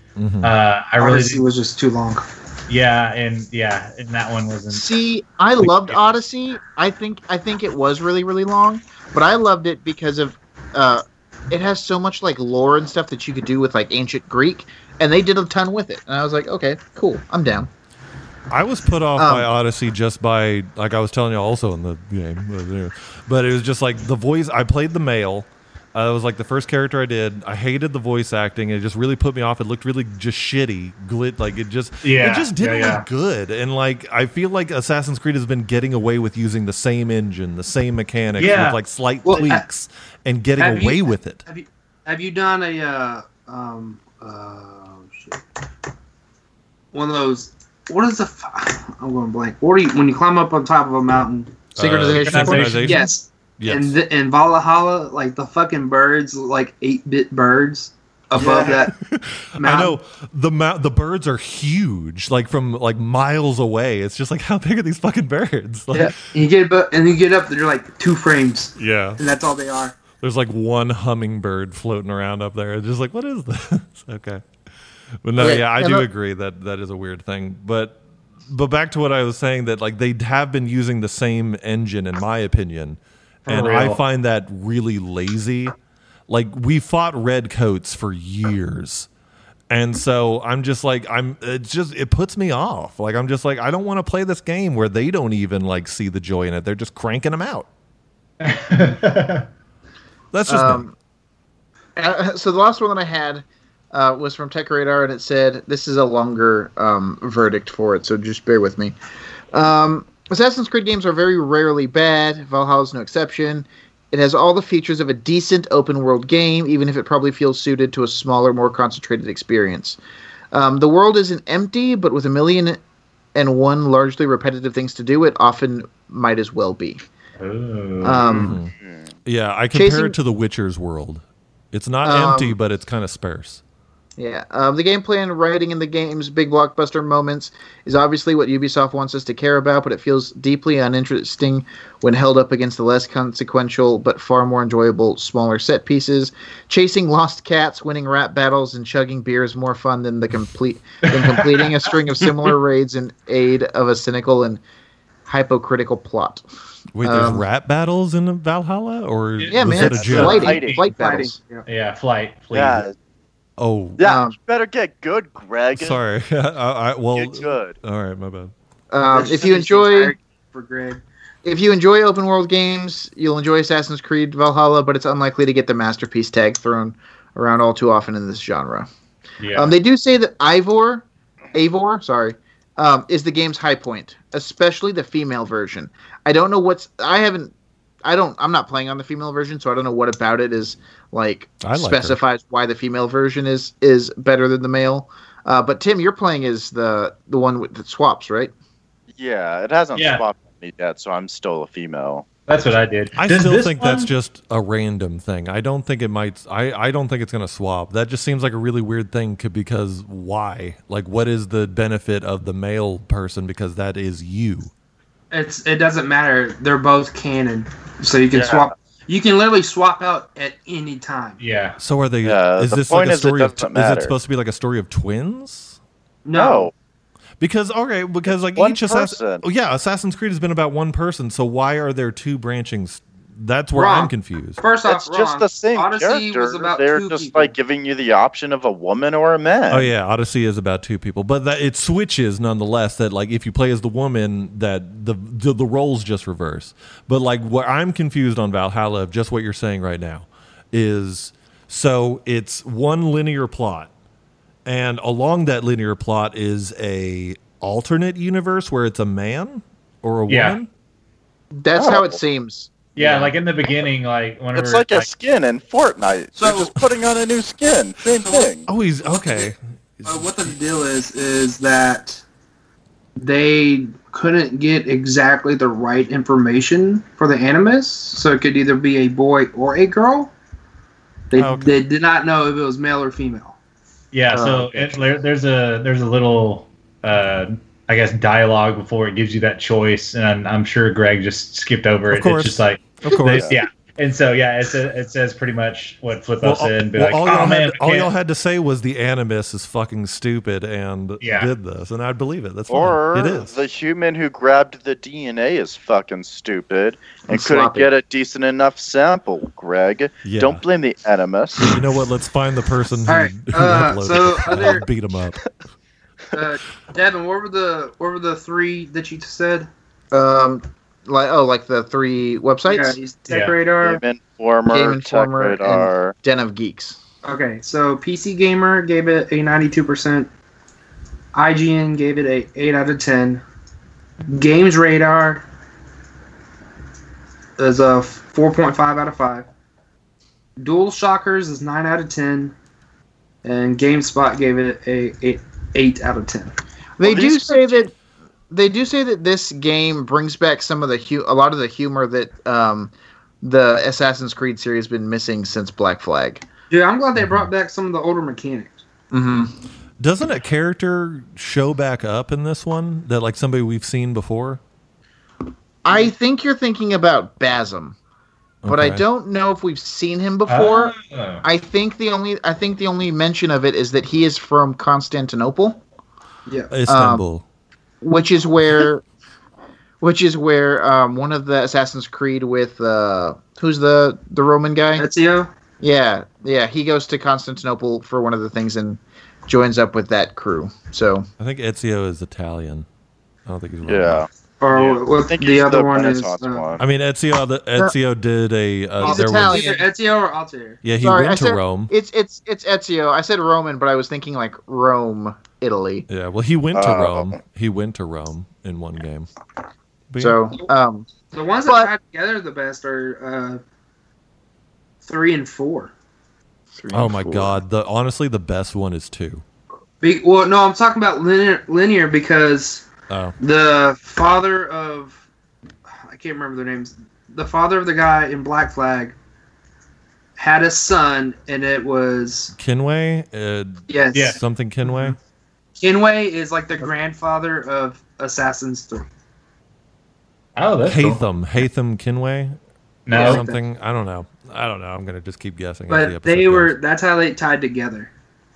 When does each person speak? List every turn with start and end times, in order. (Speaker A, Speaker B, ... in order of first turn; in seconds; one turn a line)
Speaker A: 0.2-0.6
Speaker B: 0.4-1.4
Speaker C: 1.0-2.3
Speaker B: 2.7-4.8
Speaker D: 4.7-17.7
Speaker A: 18.5-41.4
Speaker D: 19.2-19.5
Speaker B: 32.0-33.0
Speaker B: 38.4-38.8
Speaker C: 39.2-39.6
Speaker C: 40.6-45.4
Speaker C: 46.9-51.7
Speaker D: 51.7-52.8
Speaker A: 51.8-54.0
Speaker B: 52.2-53.1
Speaker C: 52.8-58.9
Speaker E: 58.3-58.7
Speaker A: 58.4-66.1
Speaker C: 59.6-60.0
Speaker C: 65.9-70.0
Speaker A: 68.8-69.2
Speaker A: 70.2-74.4
Speaker A: 75.2-85.7
Speaker D: 75.4-76.1
Speaker B: 83.5-84.0
Speaker A: 86.3-89.1
Speaker A: 89.7-97.7
Speaker B: 98.4-99.5
Speaker A: 100.3-100.8
Speaker D: 100.5-100.9
Speaker D: 102.0-108.9
Speaker D: 109.5-120.0
Speaker D: 120.5-122.8
Speaker D: 123.3-127.0
Speaker B: 127.4-128.6
Speaker D: 128.0-128.6
Speaker A: 128.4-128.7
Speaker E: 128.8-129.1
Speaker A: 129.2-133.6
Speaker D: 129.7-130.1
Speaker D: 132.0-132.6
Speaker D: 134.2-154.6
Speaker B: 151.1-151.7
Speaker D: 155.3-156.4
Speaker A: 156.9-160.5
Speaker D: 157.0-157.4
Speaker B: 159.4-160.9
Speaker D: 159.5-161.3
Speaker E: 159.9-160.8
Speaker C: 160.3-161.7
Speaker B: 161.7-162.8
Speaker E: 162.5-162.9
Speaker A: 163.6-164.0
Speaker E: 164.0-166.0
Speaker D: 164.0-164.3
Speaker A: 165.7-168.5
Speaker E: 167.1-167.8
Speaker D: 168.9-170.1
Speaker C: 169.1-171.0
Speaker D: 171.4-178.9
Speaker B: 179.4-179.7
Speaker D: 179.5-187.5
Speaker D: 188.0-198.5
Speaker A: 191.6-192.2
Speaker E: 199.2-202.2
Speaker B: 199.9-200.2
Speaker B: 202.5-204.1
Speaker A: 203.2-214.7
Speaker C: 215.3-221.4
Speaker E: 218.3-218.7
Speaker B: 221.4-221.8
Speaker A: 221.8-225.8
Speaker E: 222.2-224.1
Speaker C: 226.2-226.7
Speaker E: 226.3-226.7
Speaker A: 227.4-234.6
Speaker E: 228.5-229.4
Speaker C: 233.7-237.5
Speaker E: 234.9-239.9
Speaker A: 239.7-253.9
Speaker A: 254.7-260.7
Speaker B: 260.3-260.6
Speaker D: 261.6-263.3
Speaker E: 261.8-262.2
Speaker B: 262.9-265.1
Speaker E: 264.5-268.7
Speaker C: 266.4-266.7
Speaker A: 268.7-270.5
Speaker C: 269.1-269.5
Speaker C: 270.0-272.2
Speaker C: 273.2-280.3
Speaker C: 281.3-283.6
Speaker A: 281.3-281.7
Speaker B: 284.1-298.1
Speaker D: 284.3-285.0
Speaker A: 292.1-293.6
Speaker E: 293.3-293.6
Speaker A: 296.4-303.6
Speaker B: 301.2-301.5
Speaker E: 302.7-311.7
Speaker D: 307.3-307.9
Speaker A: 310.2-310.6
Speaker A: 311.6-315.4
Speaker C: 313.1-314.8
Speaker C: 316.3-319.7
Speaker D: 320.1-323.0
Speaker C: 322.6-324.0
Speaker B: 323.3-323.6
Speaker E: 323.8-326.1
Speaker D: 324.7-327.0
Speaker C: 327.2-330.3
Speaker C: 331.3-333.4
Speaker C: 334.3-335.4
Speaker C: 337.6-339.5
Speaker C: 340.6-342.5
Speaker C: 343.4-346.5
Speaker D: 347.0-347.9
Speaker E: 347.0-347.7
Speaker D: 348.5-356.4
Speaker C: 356.7-358.8
Speaker D: 359.1-359.5
Speaker A: 360.0-364.6
Speaker D: 365.8-367.9
Speaker A: 368.6-369.0
Speaker D: 368.6-375.8
Speaker B: 370.5-371.4
Speaker C: 376.5-376.7
Speaker A: 376.7-377.4
Speaker D: 376.9-377.2
Speaker D: 378.0-379.0
Speaker D: 380.0-385.1
Speaker C: 384.9-385.5
Speaker D: 385.8-391.3
Speaker A: 391.4-392.9
Speaker A: 393.4-394.2
Speaker E: 393.9-396.8
Speaker C: 394.6-396.6
Speaker A: 396.8-399.7
Speaker C: 399.0-400.8
Speaker D: 399.0-399.8
Speaker A: 400.8-401.9
Speaker D: 401.0-406.1
Speaker A: 406.1-409.3
Speaker E: 406.7-407.4
Speaker A: 410.1-410.4
Speaker D: 410.2-411.1
Speaker C: 411.3-413.6
Speaker D: 411.6-411.9
Speaker C: 415.0-415.9
Speaker D: 416.8-417.6
Speaker A: 416.9-419.4
Speaker C: 420.0-422.8
Speaker A: 423.1-423.3
Speaker C: 423.4-425.2
Speaker C: 426.0-429.1
Speaker C: 430.4-432.5
Speaker A: 432.6-435.2
Speaker C: 433.9-434.4
Speaker B: 434.1-434.4
Speaker C: 435.8-439.1
Speaker B: 440.6-441.2
Speaker A: 440.8-442.6
Speaker B: 443.1-443.4
Speaker C: 443.1-443.6
Speaker A: 443.1-446.7
Speaker C: 445.9-448.1